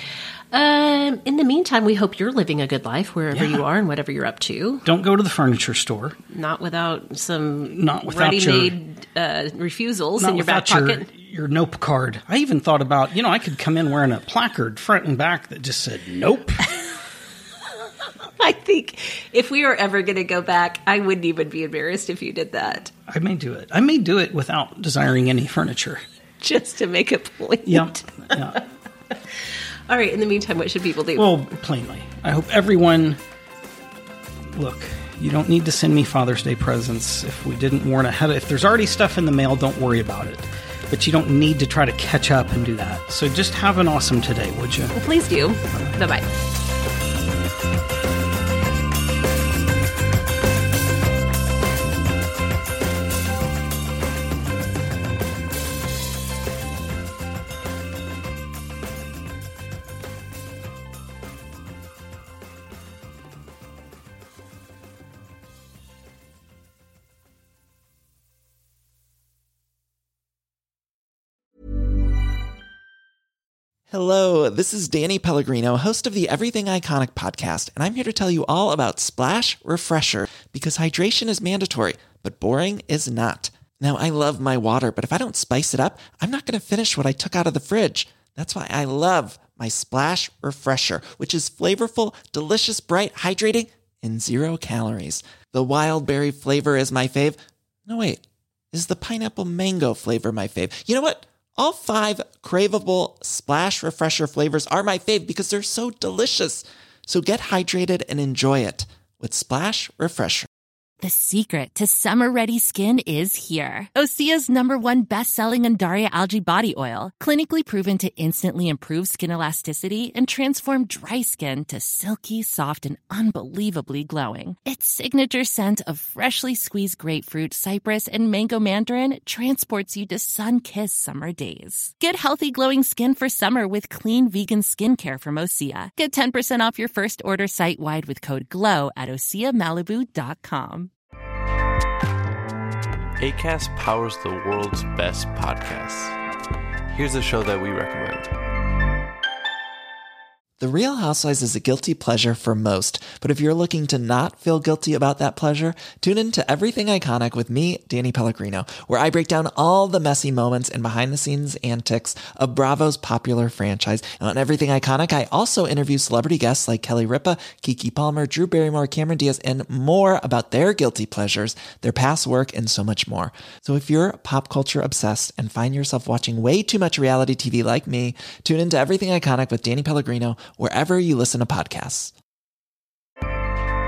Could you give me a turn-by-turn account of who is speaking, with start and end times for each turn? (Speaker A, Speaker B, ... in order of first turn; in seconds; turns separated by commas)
Speaker A: 0.5-4.8, Speaker B: 3.3-3.6, Speaker B: 4.8-6.2, Speaker A: 6.3-11.1, Speaker B: 7.7-8.8, Speaker B: 10.2-16.6, Speaker A: 18.4-22.9, Speaker B: 23.1-26.0, Speaker A: 26.4-28.5, Speaker B: 27.6-28.6, Speaker A: 29.9-31.4, Speaker B: 31.1-33.2, Speaker B: 34.5-45.0, Speaker A: 44.9-46.2, Speaker B: 45.7-46.0, Speaker C: 73.9-110.5, Speaker D: 111.0-140.9, Speaker E: 143.2-146.2, Speaker E: 146.9-148.3, Speaker C: 150.6-182.1